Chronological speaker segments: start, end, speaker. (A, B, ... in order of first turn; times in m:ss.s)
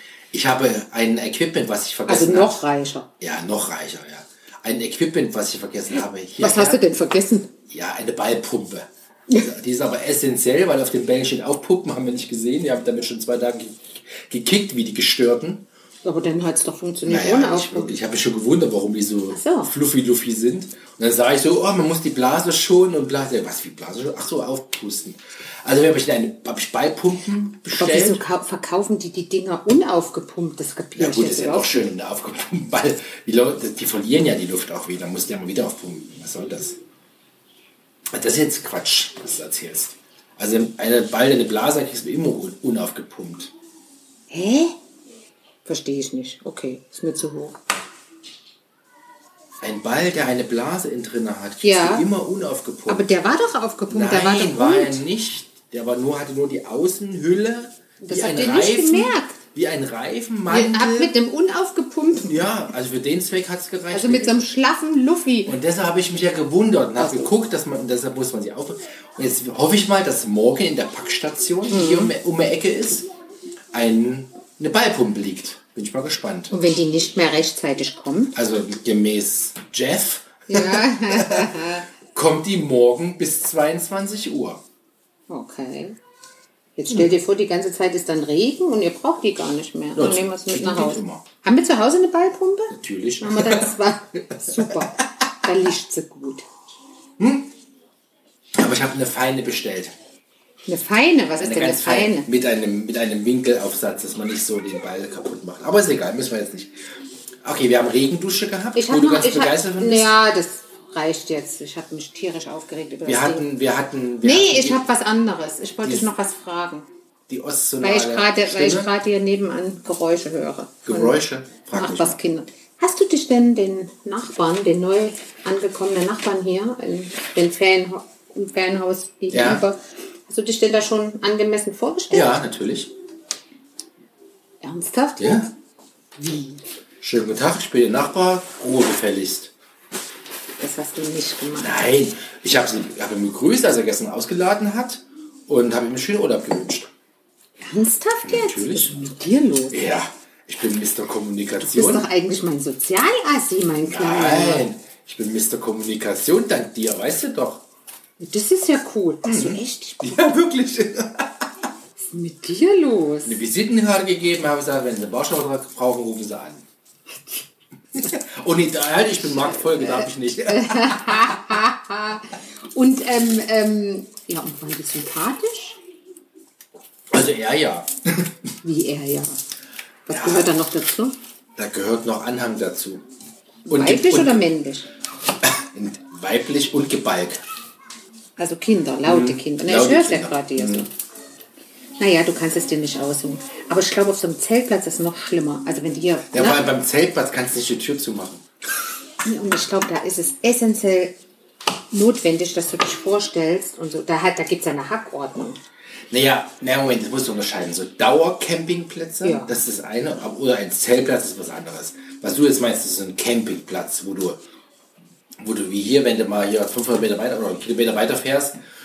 0:00.3-0:02.6 A
0:02.1-0:03.1 B
0:03.2-0:06.8 A
0:06.4-0:07.5 B
0:07.7-0:08.9 A
0:09.4-0:15.7 A
0:16.0-0:18.0 B
0:17.0-0:28.2 A
0:19.3-0:19.7 B
0:27.8-0:31.8 B
0:31.0-0:36.8 A
0:38.1-0:43.5 A
0:44.3-0:44.8 B
0:45.7-0:47.6 B
0:49.6-0:53.1 A
0:51.6-0:52.1 B
0:52.9-0:55.0 B
0:53.9-1:01.1 A
0:58.0-0:59.4 B
1:00.5-1:02.4 B
1:02.2-1:04.4 A
1:03.9-1:05.6 B
1:05.5-1:13.1 A
1:07.0-1:07.3 B
1:11.7-1:12.2 B
1:13.7-1:16.5 A
1:16.5-1:18.4 B
1:18.4-1:24.6 A
1:20.5-1:21.9 B
1:25.3-1:26.0 B
1:26.8-1:36.4 B
1:30.0-1:31.2 A
1:32.7-1:33.8 A
1:34.3-1:34.9 A
1:37.2-1:37.5 A
1:38.6-1:40.0 A
1:40.7-1:42.3 B
1:41.4-1:46.8 A
1:47.4-1:50.2 A
1:48.7-1:53.5 B
1:53.0-1:54.9 A
1:54.2-1:56.9 B
1:55.8-1:56.1 A
1:57.3-1:58.9 A
1:57.8-2:01.2 B
2:00.9-2:02.2 A
2:01.7-2:12.4 B
2:09.3-2:09.6 A
2:12.1-2:12.9 A
2:14.6-2:15.5 B
2:15.2-2:15.5 A
2:16.2-2:16.6 B
2:17.0-2:19.5 A
2:20.6-2:21.8 B
2:21.6-2:26.9 A
2:27.6-2:29.9 B
2:28.2-2:29.0 A
2:29.7-2:32.1 A
2:31.6-2:34.7 B
2:33.9-2:37.6 A
2:38.2-2:40.0 B
2:39.2-2:41.5 A
2:42.0-2:43.4 B
2:43.2-2:46.6 A
2:48.0-2:51.6 A
2:49.4-2:55.8 B
2:57.1-2:58.4 A
2:58.6-2:59.4 B
3:00.1-3:01.2 B
3:00.1-3:00.5 A
3:01.6-3:03.0 A
3:03.6-3:04.9 B
3:03.7-3:04.4 A
3:05.4-3:07.4 A
3:08.4-3:10.9 B
3:09.0-3:10.9 A
3:12.0-3:16.7 B
3:16.3-3:18.4 A
3:19.2-3:21.2 B
3:21.9-3:25.6 B
3:26.1-3:34.4 A
3:29.2-3:29.5 B
3:35.4-3:38.6 A